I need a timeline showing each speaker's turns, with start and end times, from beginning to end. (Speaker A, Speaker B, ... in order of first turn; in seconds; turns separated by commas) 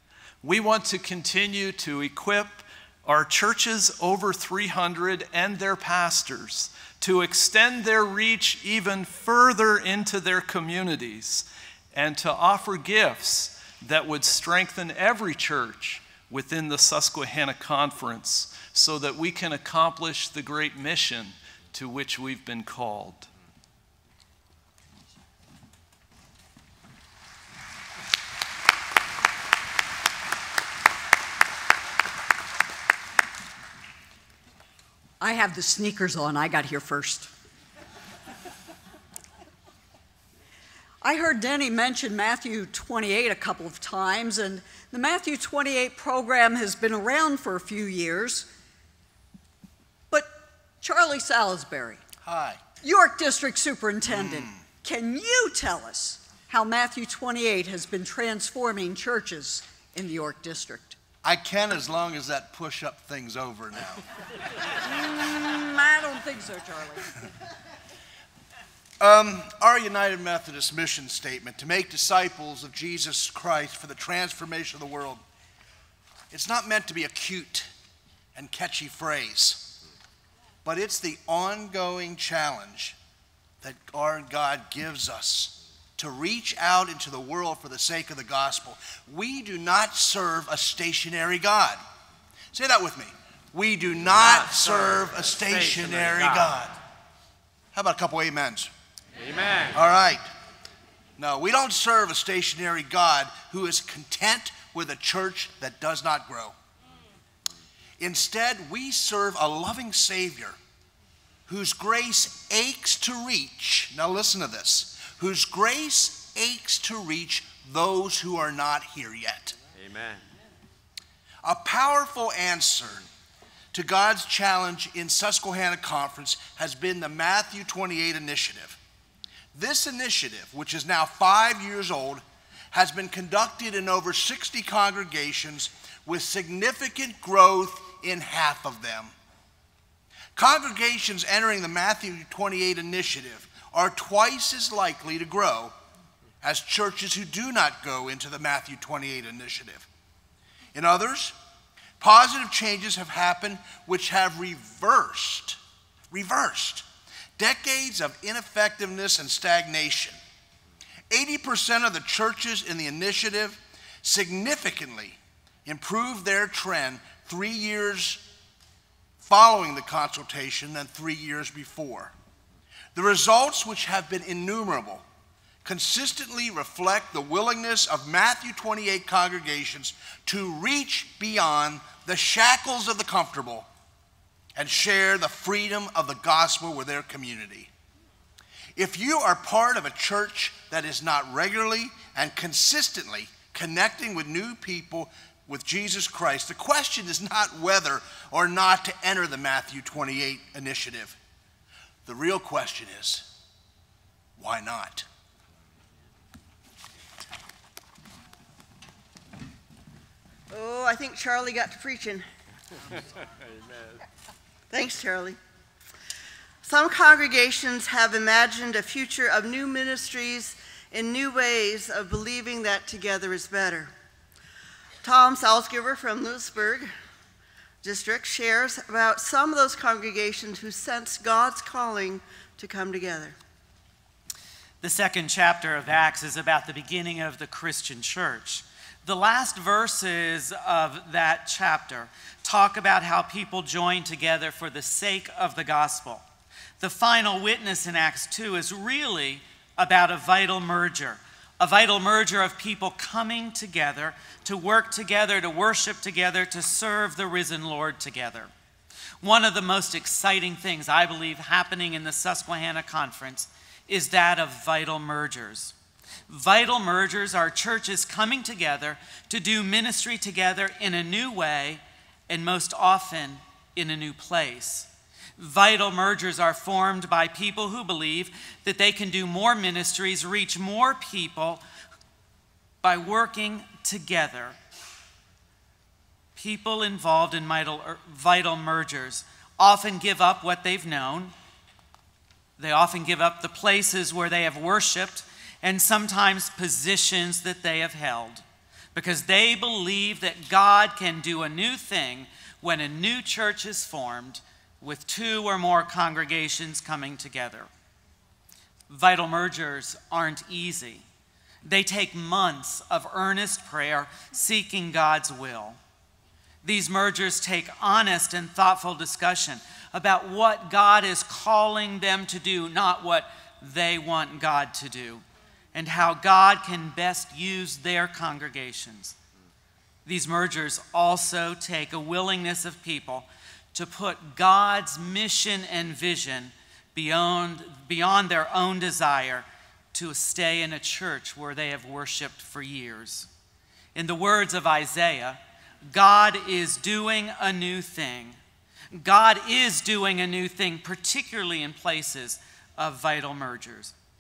Speaker A: 0.4-23.3, Speaker B: 35.2-37.3, Speaker B: 41.0-48.5, Speaker B: 50.1-52.0, Speaker C: 52.3-52.6, Speaker B: 52.8-61.0, Speaker C: 61.2-64.0, Speaker B: 64.8-67.1, Speaker C: 69.0-75.2, Speaker C: 76.3-77.7, Speaker C: 78.3-79.8, Speaker C: 80.7-83.0, Speaker C: 83.6-91.8, Speaker C: 92.5-96.8, Speaker D: 94.1-96.6, Speaker C: 97.7-98.7, Speaker D: 99.2-99.8, Speaker C: 99.7-100.2, Speaker C: 101.2-106.5, Speaker C: 108.0-110.6, Speaker C: 111.5-119.6, Speaker D: 119.8-120.2, Speaker C: 121.4-123.1, Speaker C: 123.7-128.8, Speaker C: 129.5-139.1, Speaker C: 140.4-145.8, Speaker C: 146.4-149.9, Speaker C: 150.7-151.3, Speaker C: 152.0-155.6, Speaker C: 156.1-156.8, Speaker C: 157.4-160.2, Speaker C: 161.1-168.3, Speaker C: 169.2-172.1, Speaker C: 172.9-175.0, Speaker C: 175.6-183.7, Speaker C: 184.6-187.7, Speaker C: 188.8-201.2, Speaker C: 202.1-203.3, Speaker C: 204.4-205.1, Speaker E: 210.5-212.3, Speaker D: 213.6-214.0, Speaker E: 214.7-215.4, Speaker E: 216.7-223.9, Speaker E: 225.0-226.9, Speaker E: 227.8-233.4, Speaker F: 234.8-246.2, Speaker F: 246.8-258.5, Speaker F: 259.2-265.7, Speaker F: 266.3-281.6, Speaker F: 282.8-284.6, Speaker F: 286.4-291.3, Speaker F: 292.6-307.7, Speaker F: 308.9-311.1, Speaker F: 311.6-315.8, Speaker F: 316.6-329.1, Speaker F: 330.1-343.3, Speaker F: 343.9-348.4, Speaker F: 348.9-353.9